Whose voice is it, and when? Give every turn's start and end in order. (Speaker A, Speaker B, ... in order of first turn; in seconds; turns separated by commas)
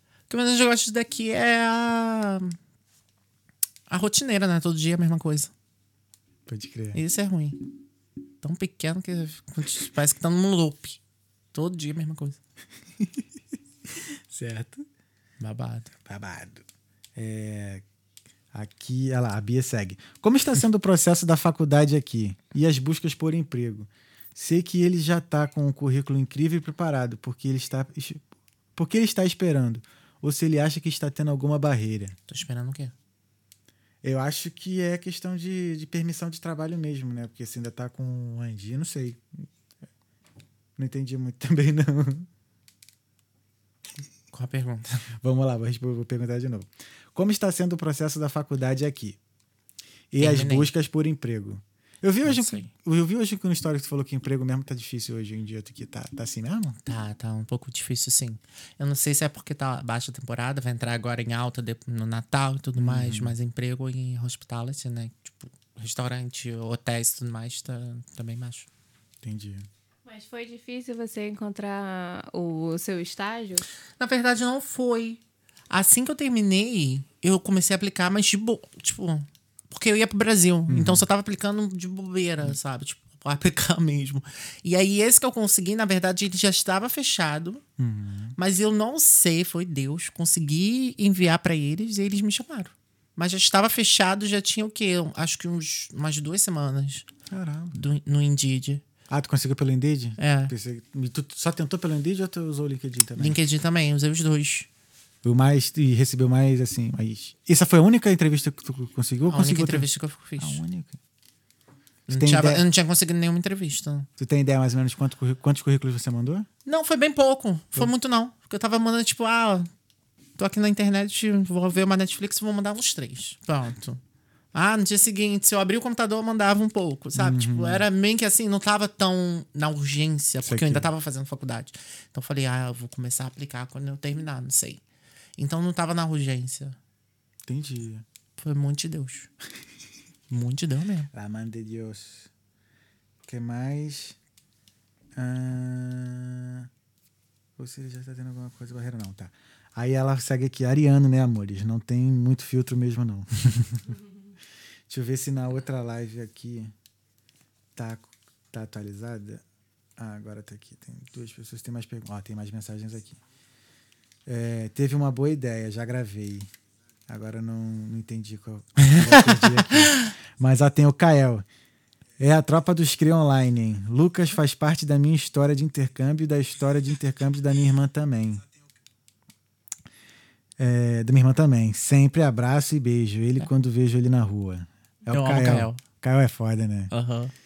Speaker A: 0.3-2.5, Speaker A: 3.9-5.5, Speaker B: 6.5-7.0, Speaker A: 6.9-7.6, Speaker A: 8.4-11.0, Speaker A: 11.5-12.4, Speaker B: 13.0-13.2, Speaker B: 14.0-14.8, Speaker A: 15.4-15.9, Speaker B: 16.1-16.6, Speaker B: 17.1-17.8, Speaker B: 18.5-28.2, Speaker B: 28.7-32.1, Speaker A: 32.3-32.9, Speaker B: 34.0-39.5, Speaker B: 40.8-42.3, Speaker A: 44.3-45.0, Speaker B: 45.2-49.2, Speaker B: 50.1-56.8, Speaker A: 50.2-50.7, Speaker A: 52.2-52.7, Speaker A: 56.8-68.7, Speaker B: 62.8-63.4, Speaker B: 69.2-69.7, Speaker C: 70.0-73.7, Speaker A: 74.0-87.6, Speaker B: 80.7-81.0, Speaker B: 87.8-88.3, Speaker A: 88.3-97.1, Speaker B: 97.3-97.8, Speaker A: 97.7-98.8, Speaker B: 99.1-103.4, Speaker A: 100.2-100.5, Speaker A: 103.2-104.7, Speaker B: 105.2-109.9, Speaker A: 109.3-110.6, Speaker B: 110.4-111.0, Speaker B: 112.1-112.6, Speaker A: 112.1-114.1, Speaker B: 114.2-116.5, Speaker A: 116.6-119.7, Speaker A: 120.4-124.0, Speaker A: 124.5-134.8, Speaker B: 127.2-127.8, Speaker B: 130.4-130.9, Speaker A: 135.4-136.8, Speaker B: 137.4-138.0, Speaker A: 138.4-139.3, Speaker A: 140.3-141.1, Speaker B: 141.1-142.3, Speaker B: 143.2-144.2, Speaker B: 145.2-146.7, Speaker B: 147.6-153.9, Speaker B: 154.9-156.7, Speaker B: 157.8-159.4, Speaker B: 160.0-163.2, Speaker B: 164.2-166.5, Speaker B: 167.1-171.4, Speaker A: 168.8-170.0, Speaker B: 172.2-178.4, Speaker B: 180.6-186.9, Speaker A: 185.1-185.8, Speaker A: 186.9-187.3